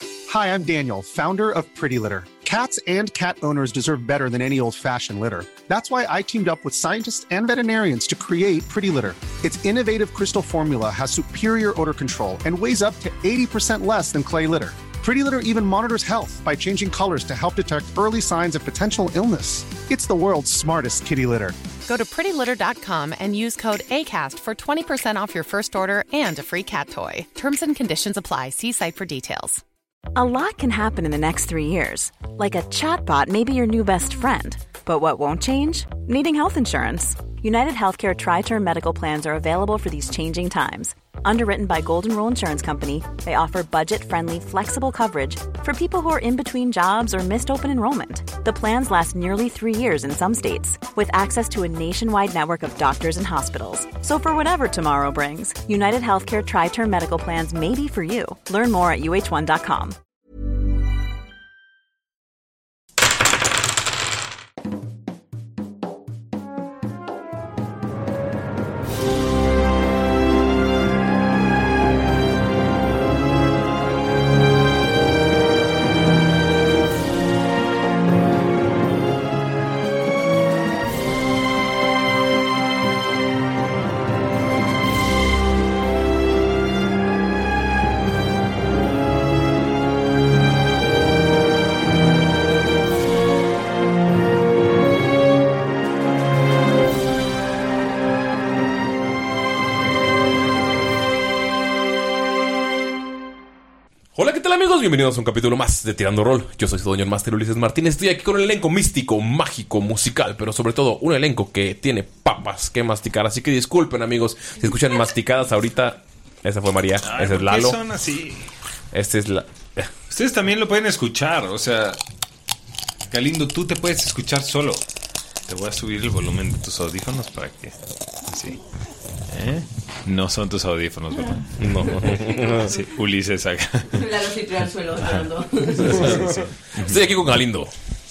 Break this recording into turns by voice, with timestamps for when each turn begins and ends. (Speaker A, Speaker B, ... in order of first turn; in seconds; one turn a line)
Speaker A: 0.3-21.5
Speaker B: 21.9-29.6
Speaker C: 30.1-60.0
Speaker D: 104.1-117.8
Speaker E: 117.0-118.5
Speaker D: 118.9-119.9
Speaker E: 120.1-122.0
Speaker E: 123.1-124.8
Speaker E: 125.5-128.6
Speaker E: 129.3-134.1
Speaker D: 131.6-132.7
Speaker F: 134.0-136.1
Speaker E: 135.8-137.0
Speaker D: 136.8-137.7